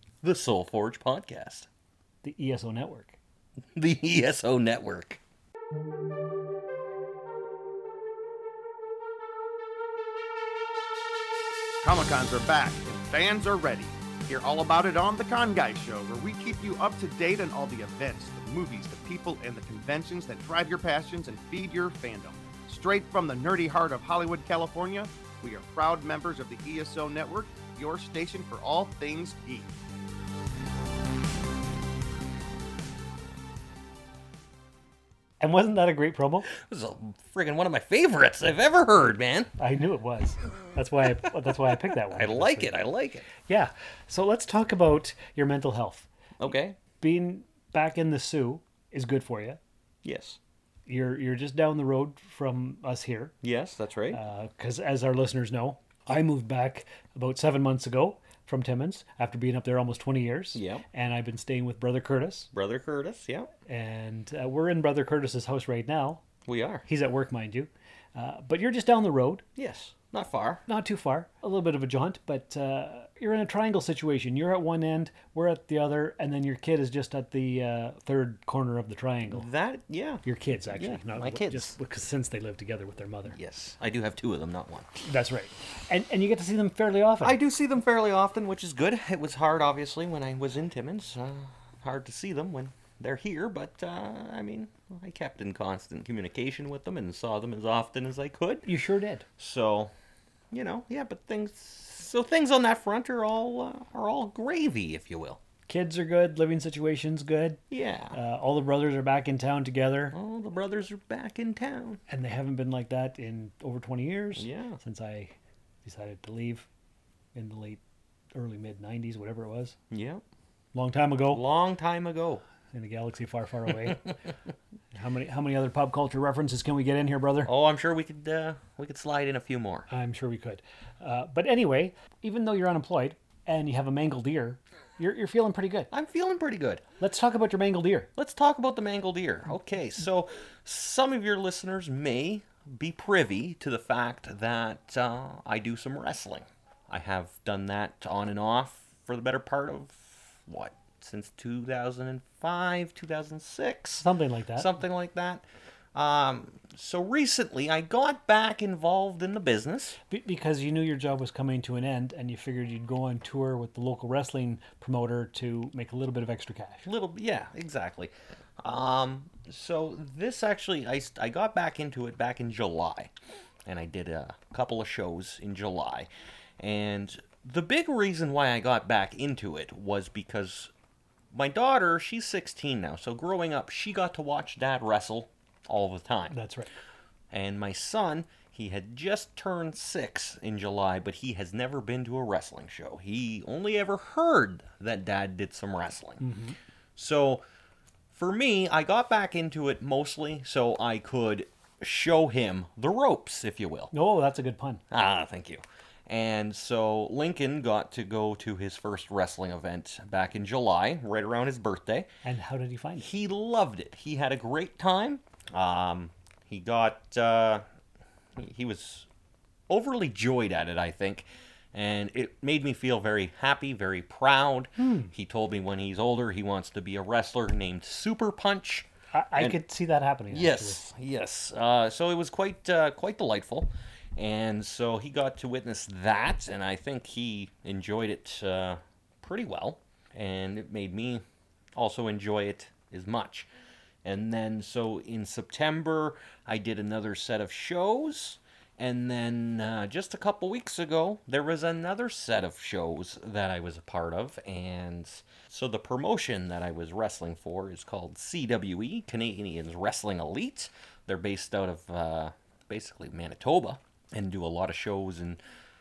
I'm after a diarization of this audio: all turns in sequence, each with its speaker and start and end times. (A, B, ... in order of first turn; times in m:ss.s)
0:00.2-0:01.7 A
0:02.2-0:03.2 B
0:03.8-0:05.2 A
0:11.8-0:29.7 C
0:35.4-0:36.5 B
0:36.5-0:39.5 A
0:39.6-0:42.8 B
0:42.1-0:43.3 A
0:43.4-0:46.1 B
0:46.4-0:46.8 A
0:47.0-0:49.6 B
0:50.0-0:50.4 A
0:50.9-0:53.3 B
0:53.4-0:54.2 A
0:54.1-1:02.5 B
1:00.5-1:00.8 A
1:02.5-1:03.5 A
1:03.7-1:06.2 B
1:06.5-1:06.8 A
1:06.9-1:09.4 B
1:09.6-1:10.6 A
1:10.7-1:19.5 B
1:19.3-1:21.8 A
1:20.2-1:23.4 B
1:23.3-1:24.9 A
1:25.0-1:27.4 B
1:27.2-1:38.7 A
1:38.6-1:39.3 B
1:39.4-1:39.9 A
1:40.5-1:45.4 A
1:45.7-1:47.6 B
1:47.7-1:48.2 A
1:48.1-1:50.2 B
1:50.1-1:52.0 A
1:52.1-1:56.7 B
1:54.4-1:54.8 A
1:57.4-1:57.8 B
1:58.4-1:59.8 B
1:59.9-2:00.2 A
2:00.7-2:01.4 B
2:01.3-2:02.4 A
2:02.7-2:04.1 B
2:05.0-2:07.5 B
2:07.4-2:09.9 A
2:09.9-2:15.9 B
2:15.9-2:16.8 A
2:17.0-2:18.1 B
2:18.2-2:40.0 A
2:34.0-2:34.7 B
2:40.1-2:46.9 B
2:46.8-2:53.1 A
2:53.7-2:56.1 A
2:56.6-3:00.7 A
3:01.3-3:06.4 A
3:06.3-3:06.7 B
3:07.3-3:16.2 A
3:16.2-3:16.6 B
3:17.0-3:17.4 A
3:18.1-3:23.9 A
3:23.9-3:24.8 B
3:24.9-3:32.1 A
3:32.2-3:33.1 B
3:33.0-3:37.6 A
3:38.4-3:39.1 A
3:39.7-3:49.6 A
3:44.8-3:45.1 B
3:49.1-3:50.8 B
3:50.3-4:01.2 A
4:01.8-4:03.5 A
4:04.0-4:25.4 A